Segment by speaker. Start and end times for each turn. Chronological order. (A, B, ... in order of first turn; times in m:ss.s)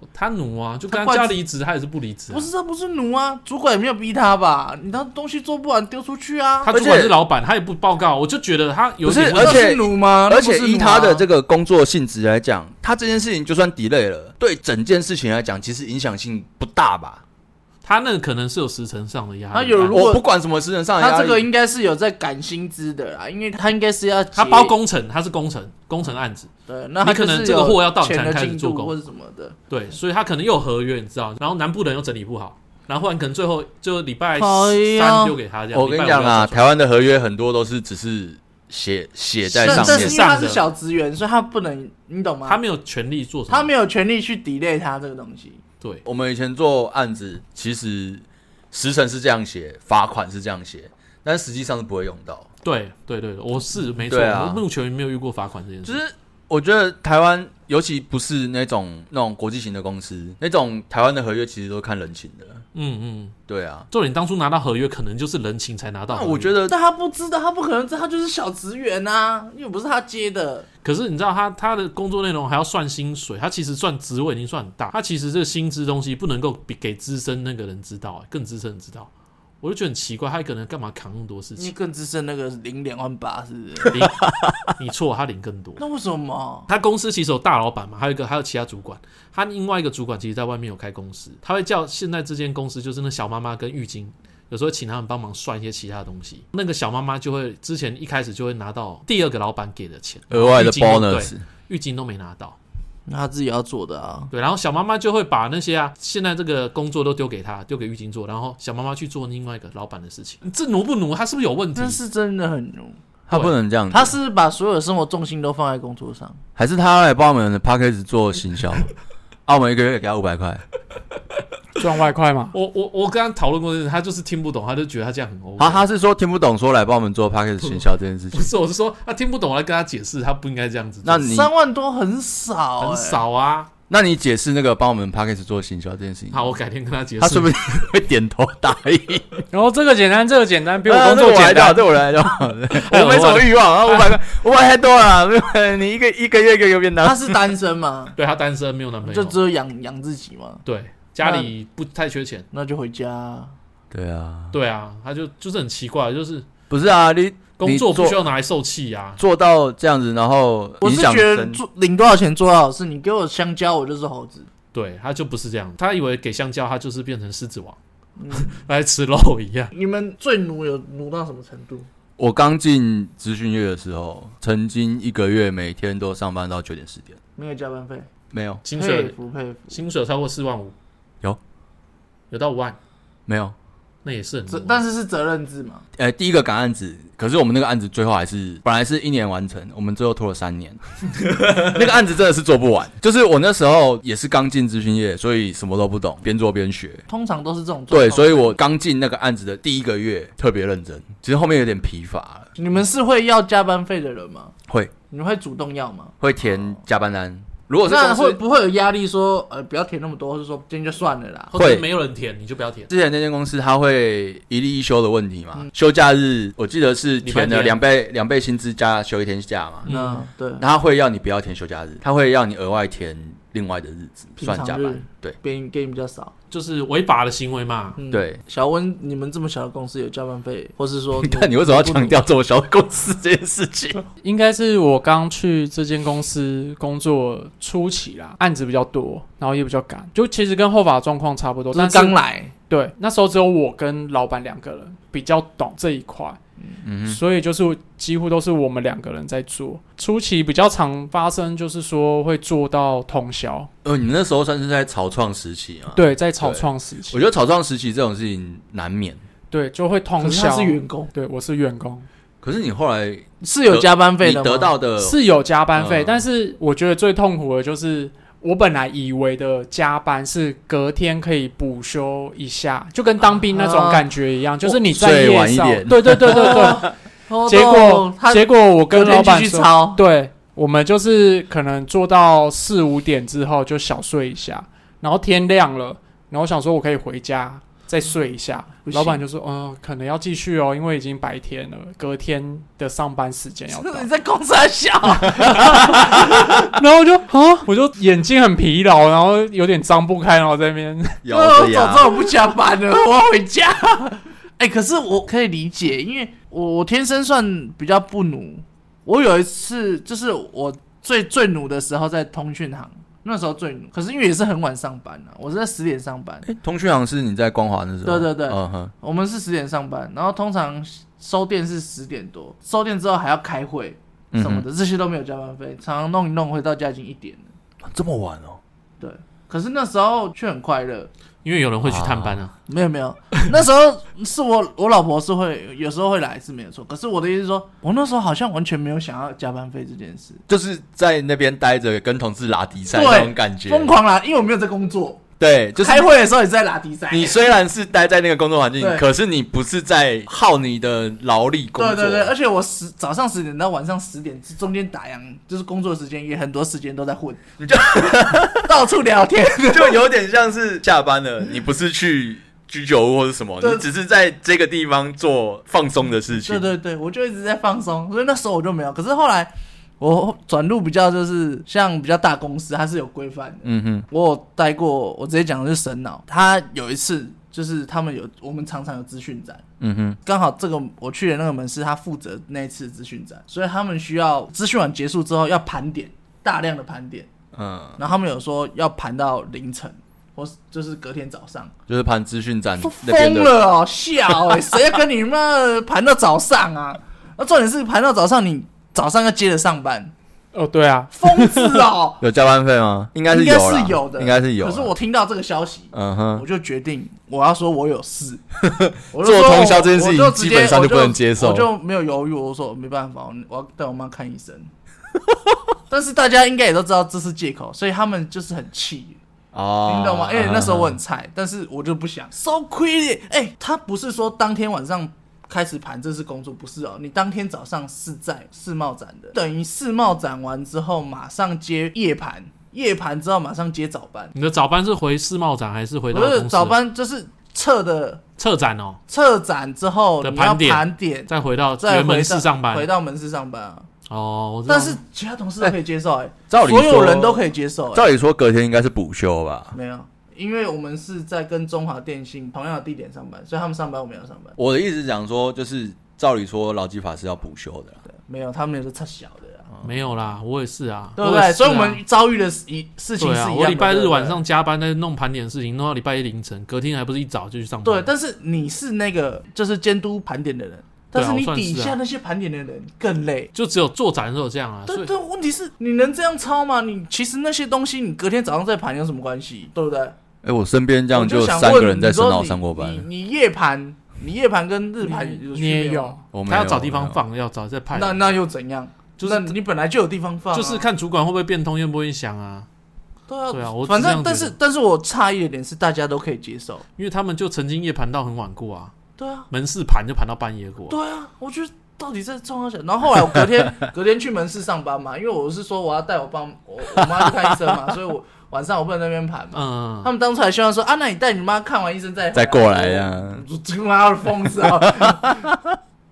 0:00.1-0:02.5 A
0:00.9-0:01.4 B
0:02.3-0:06.7 B
0:06.6-0:09.6 A
0:06.7-0:07.2 C
0:09.0-0:17.2 C
0:09.4-0:11.3 B
0:17.8-0:20.1 A
0:19.5-0:20.2 B
0:19.9-0:21.5 C
0:21.0-0:24.7 B
0:24.4-0:26.5 A
0:26.7-0:29.6 B
0:27.0-0:28.9 A
0:29.7-0:36.7 A
0:34.4-0:35.4 B
0:35.7-0:40.2 C
0:39.5-0:40.6 A
0:39.6-0:42.6 B
0:42.5-0:43.7 A
0:43.5-0:45.6 B
0:46.0-0:52.5 C
0:52.6-0:56.0 A
0:54.1-0:54.6 C
0:55.8-1:02.6 C
1:02.7-1:03.4 A
1:03.5-1:03.9 C
1:03.9-1:06.5 A
1:06.1-1:06.8 C
1:06.7-1:10.7 B
1:10.8-1:19.1 A
1:19.6-1:21.7 A
1:21.6-1:24.0 B
1:23.9-1:24.2 A
1:24.2-1:24.6 C
1:24.7-1:25.8 A
1:25.8-1:26.7 B
1:26.7-1:42.6 A
1:40.3-1:41.4 C
1:43.1-1:44.3 B
1:44.3-1:52.0 A
1:51.8-1:53.0 B
1:53.3-1:54.2 C
1:53.9-1:56.4 B
1:56.6-1:58.9 C
1:59.5-2:00.6 C
2:01.8-2:02.5 D
2:02.5-2:05.8 A
2:05.6-2:08.5 C
2:08.3-2:11.3 A
2:11.0-2:11.5 C
2:11.3-2:13.2 B
2:12.8-2:13.7 A
2:13.9-2:16.5 C
2:16.3-2:17.6 A
2:17.2-2:19.4 C
2:19.5-2:21.9 D
2:20.8-2:27.4 C
2:22.8-2:24.1 A
2:27.0-2:28.2 B
2:28.2-2:29.4 A
2:29.0-2:30.6 B
2:30.6-2:32.5 A
2:31.2-2:31.5 B
2:32.5-2:33.5 B
2:33.9-2:34.5 C
2:34.5-2:36.5 A
2:36.7-2:38.2 C
2:37.6-2:39.2 A
2:39.2-2:41.6 C
2:40.8-2:44.5 B
2:44.7-2:47.8 A
2:48.2-2:48.6 B
2:48.3-2:49.7 A
2:49.7-2:51.9 B
2:52.2-2:57.2 C
2:57.4-2:58.1 B
2:58.3-2:58.6 C
2:58.6-2:59.2 A
2:58.7-2:59.8 B
2:59.7-3:00.8 A
3:02.3-3:02.8 A
3:03.3-3:03.5 C
3:04.0-3:04.8 A
3:04.5-3:05.8 B
3:06.0-3:17.0 C
3:17.1-3:18.6 B
3:17.9-3:22.5 C
3:22.6-3:24.6 B
3:24.7-3:24.9 C
3:25.1-3:26.7 B
3:26.2-3:28.4 C
3:27.9-3:31.5 B
3:31.5-3:32.9 A
3:31.6-3:31.8 C
3:32.9-3:39.9 C
3:37.2-3:37.8 A
3:39.8-3:40.2 A
3:39.9-3:40.6 B
3:40.6-3:45.4 C
3:44.4-3:46.3 B
3:46.5-3:48.0 A
3:48.0-3:52.2 B
3:48.1-3:48.4 C
3:51.2-3:54.0 C
3:54.2-4:02.2 D
4:01.7-4:02.5 B
4:02.7-4:06.4 D
4:06.8-4:07.2 C
4:07.1-4:13.7 D
4:13.8-4:19.2 C
4:15.9-4:17.2 D
4:19.5-4:22.1 D
4:20.2-4:21.1 B
4:22.4-4:25.2 C
4:23.4-4:24.8 B
4:25.0-4:36.9 D
4:25.7-4:26.2 C
4:33.5-4:34.1 B
4:34.6-4:36.9 C
4:36.2-4:40.0 B
4:37.5-4:54.1 D
4:48.8-4:49.2 B
4:53.7-4:56.5 B
4:55.3-5:01.2 D
5:01.2-5:02.1 C
5:01.3-5:16.5 B
5:16.5-5:18.9 C
5:18.0-5:27.4 B
5:24.3-5:24.7 C
5:27.8-5:28.6 C
5:29.0-5:31.1 B
5:31.4-5:32.5 A
5:31.8-5:32.4 C
5:32.7-5:40.4 B
5:40.5-5:43.9 C
5:42.9-5:45.2 B
5:45.4-5:46.1 C
5:45.8-5:47.4 B
5:47.1-5:52.3 C
5:48.8-5:49.0 B
5:51.8-6:00.0 B
5:57.6-5:58.7 C
5:59.7-6:06.7 C
6:03.6-6:03.9 B
6:06.4-6:19.6 B
6:13.6-6:14.1 C
6:19.8-6:20.2 C
6:20.2-6:27.3 B
6:27.5-6:28.0 C
6:28.0-6:31.7 B
6:31.9-6:33.5 C
6:32.8-6:40.1 B
6:40.5-6:41.8 D
6:41.1-6:42.2 B
6:42.2-6:44.9 C
6:43.3-6:48.4 B
6:45.9-6:46.4 C
6:48.6-6:51.7 C
6:49.1-6:54.7 B
6:55.9-6:59.2 B
6:59.5-7:01.0 C
6:59.9-7:14.3 B
7:14.3-7:16.8 A
7:16.1-7:18.2 B
7:18.4-7:19.0 A
7:19.1-7:23.9 B
7:20.2-7:22.9 A
7:24.1-7:25.0 A
7:24.7-7:28.1 B
7:26.5-7:29.8 C
7:29.7-7:34.6 B
7:34.6-7:38.0 C
7:38.1-7:39.7 B
7:39.8-7:42.0 A
7:41.2-7:44.4 B
7:43.2-7:48.1 A
7:47.8-7:53.5 B
7:51.1-7:52.0 A
7:53.5-7:55.1 A
7:54.9-8:00.2 B
8:00.4-8:03.1 C
8:01.1-8:06.2 B
8:05.0-8:06.2 D
8:06.3-8:07.2 C
8:06.5-8:08.3 A
8:07.9-8:10.9 B
8:09.2-8:09.5 A
8:10.5-8:12.7 A
8:13.3-8:16.8 B
8:13.5-8:14.6 A
8:17.0-8:18.9 A
8:19.2-8:19.5 B
8:19.5-8:21.0 A
8:20.9-8:35.5 B
8:26.9-8:27.7 C
8:29.5-8:30.1 A
8:32.3-8:33.4 C
8:34.6-8:35.8 C